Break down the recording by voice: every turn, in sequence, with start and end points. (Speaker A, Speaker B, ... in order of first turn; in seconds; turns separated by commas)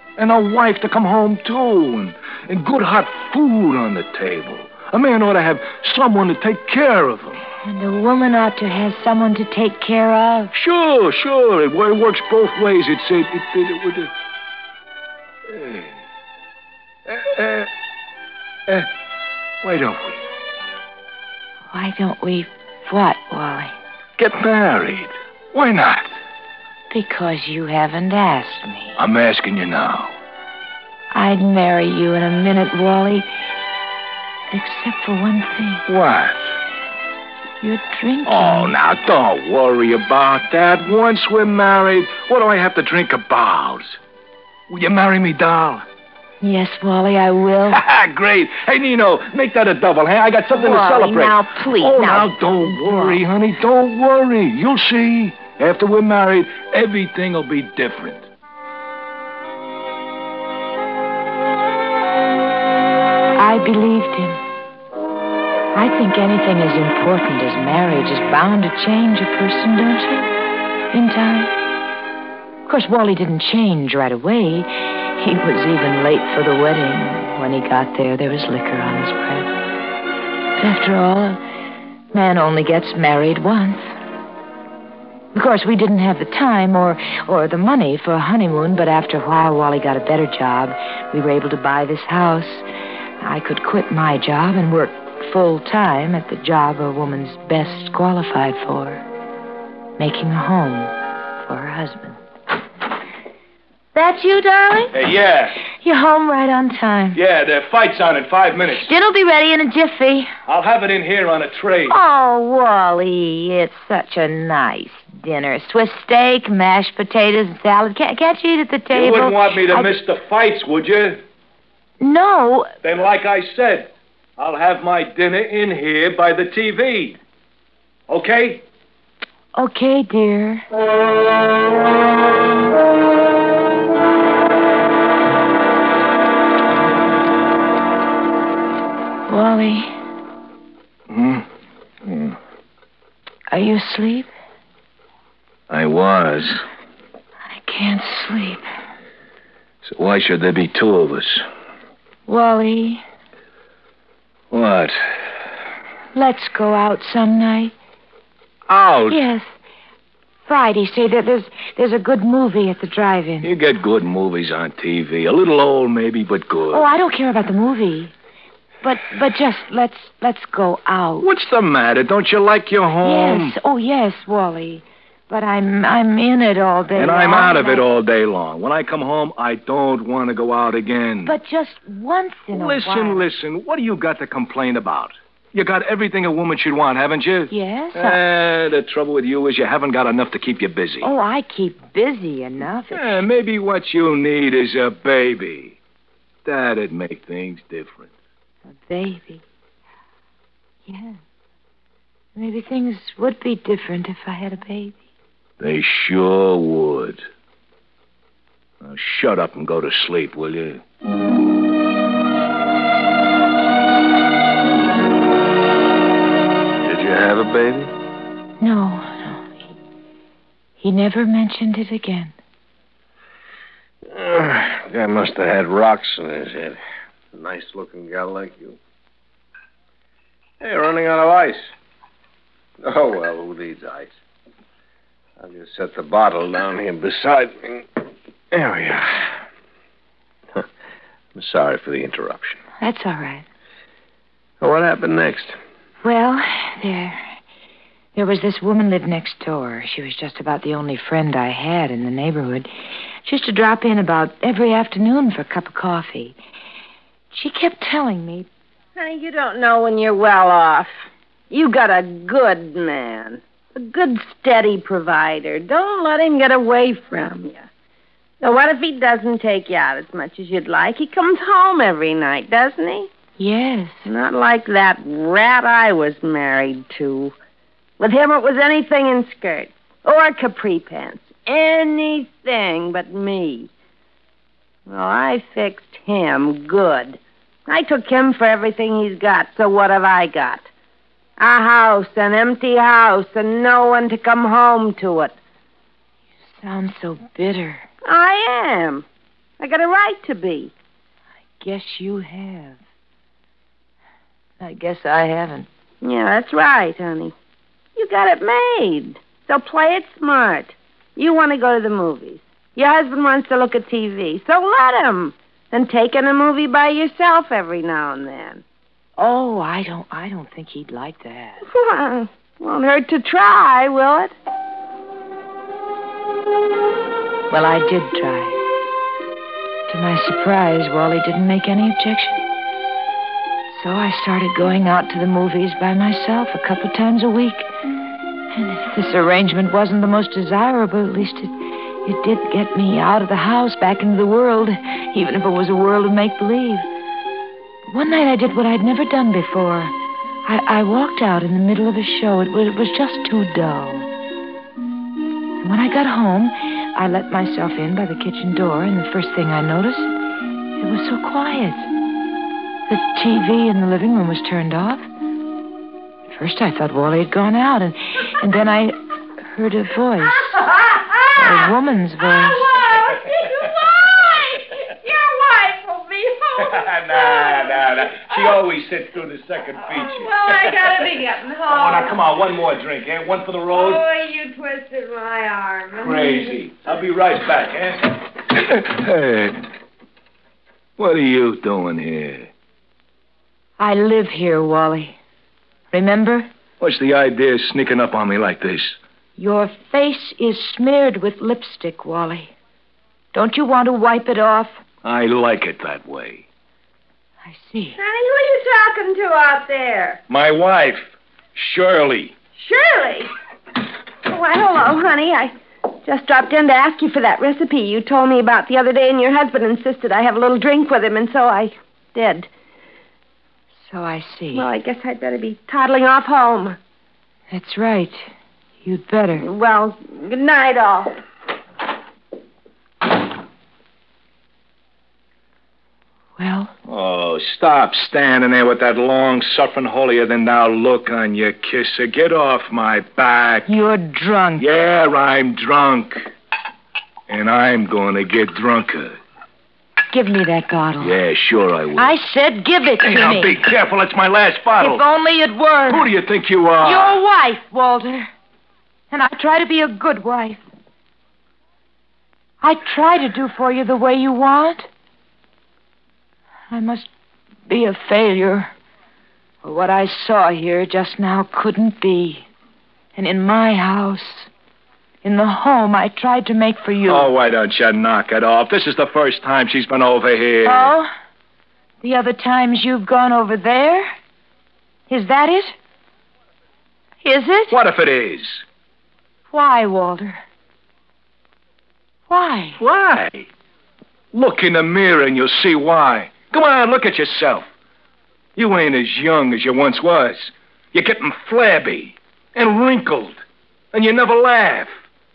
Speaker A: 0.2-7.4, Speaker B: 7.6-10.5, Speaker A: 10.5-14.1, Speaker A: 15.5-15.9, Speaker A: 17.1-17.7, Speaker A: 19.6-20.2, Speaker B: 21.7-23.8, Speaker A: 24.2-26.2, Speaker B: 26.9-29.0, Speaker A: 29.0-30.1, Speaker B: 31.1-33.3, Speaker B: 34.5-35.8, Speaker A: 35.9-36.5, Speaker B: 37.6-38.7, Speaker A: 38.2-44.0, Speaker A: 44.7-45.9, Speaker B: 46.4-47.8, Speaker A: 47.7-58.3, Speaker B: 50.5-53.2, Speaker B: 63.3-64.4, Speaker B: 65.7-70.3, Speaker B: 70.9-71.5, Speaker B: 72.6-79.5, Speaker B: 80.6-81.4, Speaker B: 82.1-83.9, Speaker B: 85.3-92.7, Speaker B: 93.2-99.0, Speaker B: 100.0-102.2, Speaker B: 103.9-104.9, Speaker A: 104.9-105.6, Speaker B: 105.7-107.2, Speaker A: 107.1-108.9, Speaker B: 108.7-110.3, Speaker A: 110.5-112.0, Speaker B: 111.9-119.9, Speaker A: 118.9-121.2, Speaker B: 122.0-122.7, Speaker A: 122.8-127.2, Speaker A: 128.1-128.6, Speaker B: 129.5-130.6, Speaker B: 139.3-139.9, Speaker A: 141.1-141.4, Speaker A: 142.0-142.3, Speaker B: 143.5-144.3, Speaker A: 145.7-146.6, Speaker B: 147.5-148.6, Speaker A: 149.8-151.4, Speaker B: 152.2-153.0, Speaker A: 154.5-155.2, Speaker B: 156.1-157.7, Speaker A: 158.7-159.2, Speaker B: 159.1-159.5, Speaker B: 160.4-163.5, Speaker A: 163.4-166.8, Speaker B: 166.7-168.1, Speaker B: 168.8-171.3, Speaker A: 171.2-173.5, Speaker B: 173.0-177.8, Speaker A: 176.9-181.3, Speaker B: 181.2-183.3, Speaker A: 182.5-191.1, Speaker B: 187.5-188.2, Speaker B: 191.0-193.1, Speaker A: 192.9-195.8, Speaker A: 196.4-198.1, Speaker B: 198.7-199.4, Speaker B: 200.9-201.2, Speaker B: 202.3-205.0, Speaker A: 205.6-207.2, Speaker A: 208.8-210.8, Speaker C: 216.8-217.9, Speaker B: 218.6-219.6, Speaker B: 220.8-222.3, Speaker C: 224.1-226.8, Speaker C: 227.3-228.8, Speaker C: 230.6-231.7, Speaker C: 232.8-234.2, Speaker C: 235.4-239.4, Speaker C: 241.3-242.6, Speaker B: 242.8-243.4, Speaker C: 244.6-245.6, Speaker B: 246.0-247.2, Speaker B: 248.1-252.7, Speaker B: 253.2-256.4, Speaker B: 257.3-258.5, Speaker D: 258.9-267.7, Speaker D: 268.4-273.1, Speaker B: 273.4-274.1, Speaker D: 274.0-277.3, Speaker D: 278.0-283.7, Speaker D: 284.9-290.7, Speaker D: 291.4-295.4, Speaker B: 296.5-297.9, Speaker D: 298.1-299.1, Speaker D: 299.6-300.7, Speaker B: 301.6-302.8, Speaker B: 304.6-305.7, Speaker D: 306.0-307.4, Speaker D: 307.9-318.6, Speaker B: 319.2-321.6, Speaker D: 321.7-324.3, Speaker B: 327.5-328.6, Speaker B: 329.9-332.4, Speaker B: 333.7-337.7, Speaker B: 338.5-346.9, Speaker B: 347.9-349.9, Speaker B: 350.4-354.1, Speaker B: 355.6-360.1, Speaker B: 360.8-361.9, Speaker B: 362.9-365.1, Speaker B: 366.3-368.9, Speaker B: 369.5-370.6, Speaker D: 370.6-371.3, Speaker B: 371.3-372.8, Speaker D: 372.7-378.5, Speaker A: 376.6-384.1, Speaker D: 379.9-382.3, Speaker D: 383.7-386.6, Speaker A: 386.0-389.6, Speaker A: 391.0-392.5, Speaker B: 393.8-395.2, Speaker B: 395.9-396.5, Speaker A: 396.8-399.0, Speaker B: 399.4-402.5, Speaker B: 403.3-404.8, Speaker A: 405.0-406.4, Speaker B: 407.4-408.0, Speaker D: 408.0-410.2, Speaker A: 410.3-412.3, Speaker D: 412.6-413.3, Speaker D: 414.2-422.5, Speaker B: 423.9-424.7, Speaker D: 424.5-426.8, Speaker B: 427.5-428.3, Speaker B: 428.8-429.5, Speaker D: 429.4-431.1, Speaker B: 436.4-436.7, Speaker A: 436.9-443.7, Speaker B: 443.6-444.7, Speaker A: 444.6-446.3, Speaker A: 447.3-449.2, Speaker B: 450.1-451.2, Speaker A: 451.0-452.1, Speaker B: 452.0-453.6, Speaker A: 453.0-455.0, Speaker B: 454.8-456.1, Speaker A: 455.9-457.2, Speaker B: 456.8-458.3, Speaker B: 459.1-460.6, Speaker B: 462.6-464.9, Speaker B: 466.7-467.1, Speaker B: 467.7-468.7, Speaker B: 469.6-472.5, Speaker B: 473.1-474.5, Speaker B: 475.2-477.3, Speaker A: 477.1-480.9, Speaker B: 480.6-481.1, Speaker B: 482.0-484.1, Speaker B: 485.1-485.7, Speaker B: 487.2-487.8, Speaker A: 487.7-488.6, Speaker B: 489.5-490.4, Speaker B: 492.3-492.8, Speaker A: 492.8-493.5, Speaker A: 494.3-497.7, Speaker A: 498.6-503.4, Speaker A: 503.9-504.9